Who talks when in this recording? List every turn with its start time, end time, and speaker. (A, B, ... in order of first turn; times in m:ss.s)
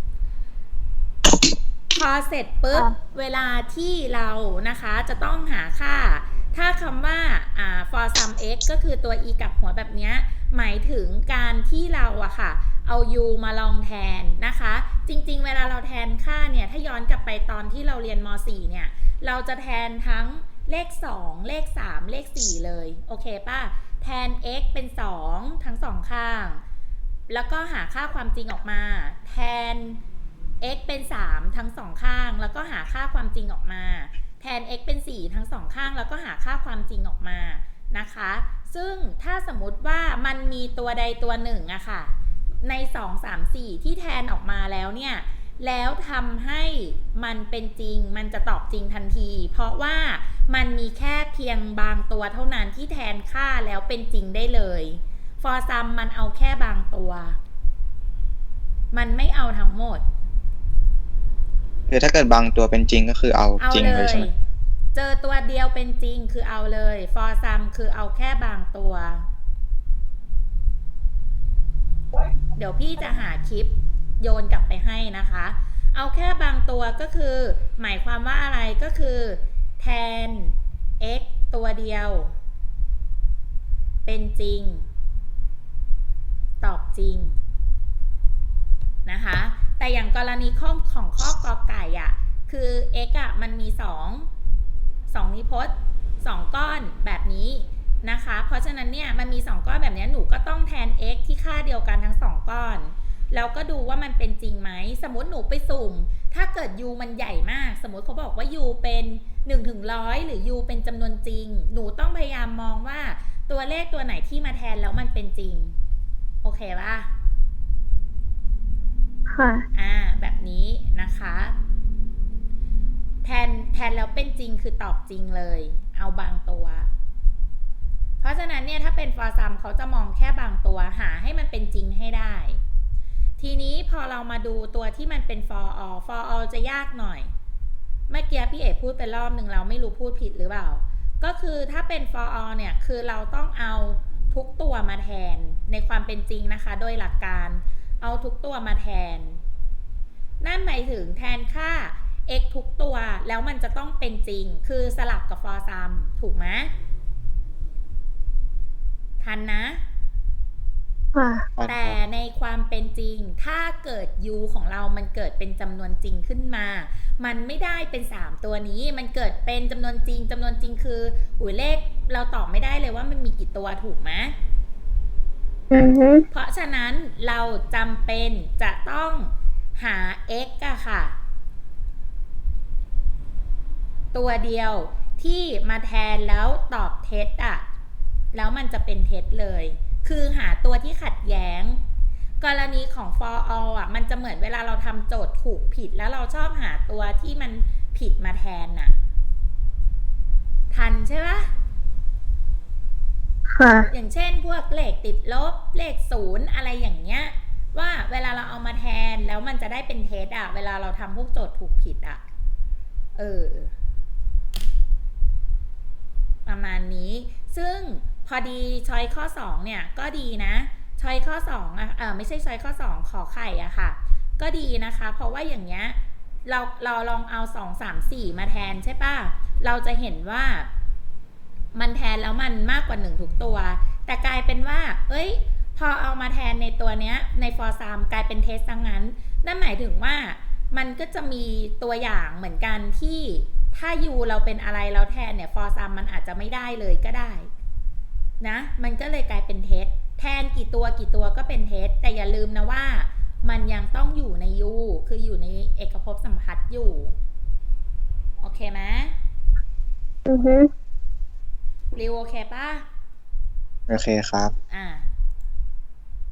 0:01.9-0:26.6 A
0:27.3-0:30.0 A
0:30.6-0:57.4 A
0:58.9-1:00.0 A
1:01.9-1:04.3 B
1:03.6-1:04.3 A
1:04.9-1:09.3 A
1:12.6-1:22.3 A
1:24.0-1:24.9 A
1:26.6-1:27.4 A
1:29.0-1:34.3 A
1:35.1-1:55.7 A
1:56.4-1:57.1 A
1:59.3-1:59.6 C
1:59.7-2:01.5 A
2:03.2-2:06.9 A
2:08.2-2:12.6 A
2:13.4-2:17.3 A
2:18.1-2:29.4 A
2:30.4-2:36.7 A
2:39.2-2:39.8 A
2:41.1-2:41.5 C
2:41.6-2:42.0 B
2:41.6-2:54.3 A
2:55.7-2:56.2 C
2:56.3-3:01.1 A
3:04.1-3:07.6 A
3:08.3-3:11.8 A
3:12.4-3:18.9 A
3:20.7-3:21.5 A
3:23.5-3:23.9 C
3:23.9-3:32.2 A
3:33.2-3:33.7 A
3:36.4-3:50.7 A
3:51.7-4:07.5 A
4:08.4-4:17.1 A
4:18.4-4:19.1 A
4:20.2-4:20.7 C
4:22.0-4:22.8 A
4:23.9-4:24.5 B
4:24.7-4:25.1 A